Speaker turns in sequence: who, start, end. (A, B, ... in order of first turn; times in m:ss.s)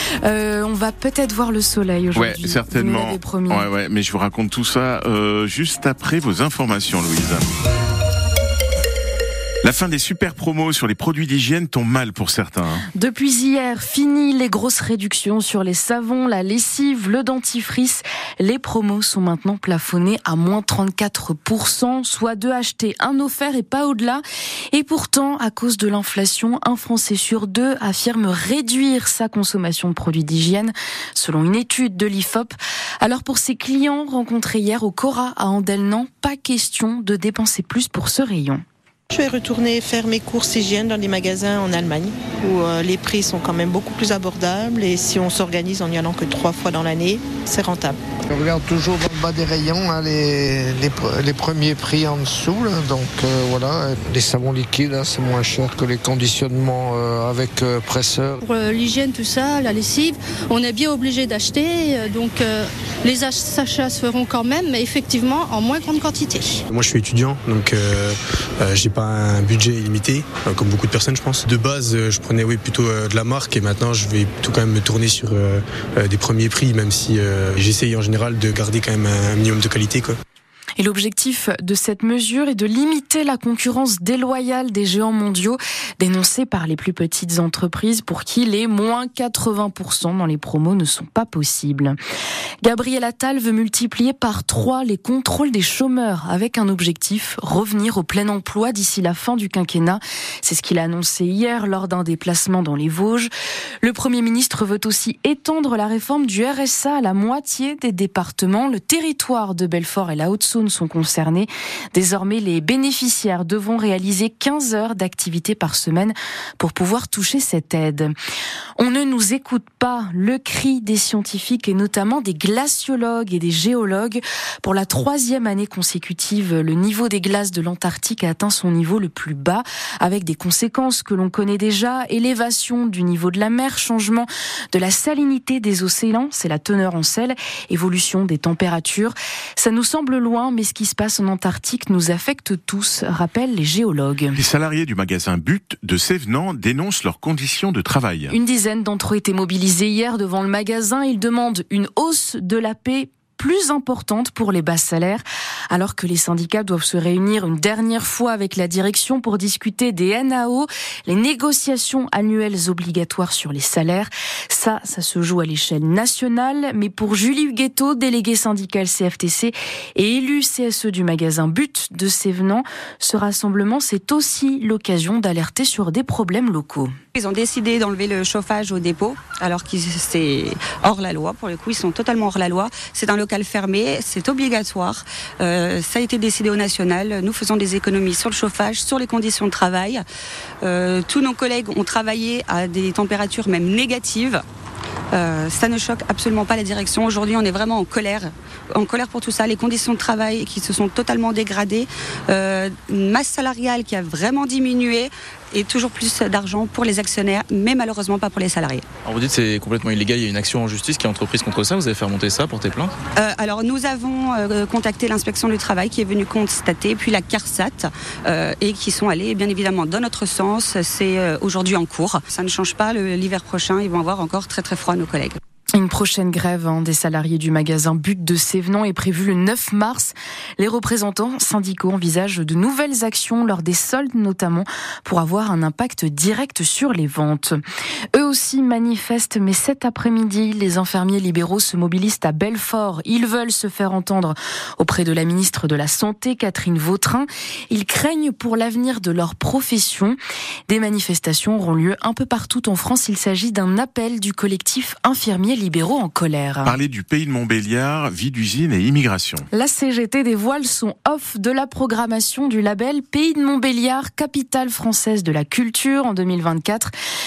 0:00.2-0:03.7 A
0:02.2-0:07.5 B
0:09.6-0:12.8 B
0:12.9-0:38.6 A
0:39.2-0:40.4 C
0:41.5-0:48.0 C
0:48.3-0:58.4 D
0:58.4-1:06.6 E
1:06.7-1:20.2 F
1:20.8-1:32.0 A
1:32.6-1:43.3 A
1:43.8-1:58.1 A
1:58.8-2:24.4 A
2:24.4-2:28.4 B
2:28.3-2:56.9 A
2:57.2-3:10.0 G
3:10.6-3:14.4 G
3:15.1-3:28.8 G
3:29.1-3:32.9 H
3:33.2-3:45.4 G
3:45.8-3:57.6 A
3:58.1-4:10.2 A
4:10.7-4:16.8 A
4:16.6-4:19.5 B
4:19.5-4:26.9 A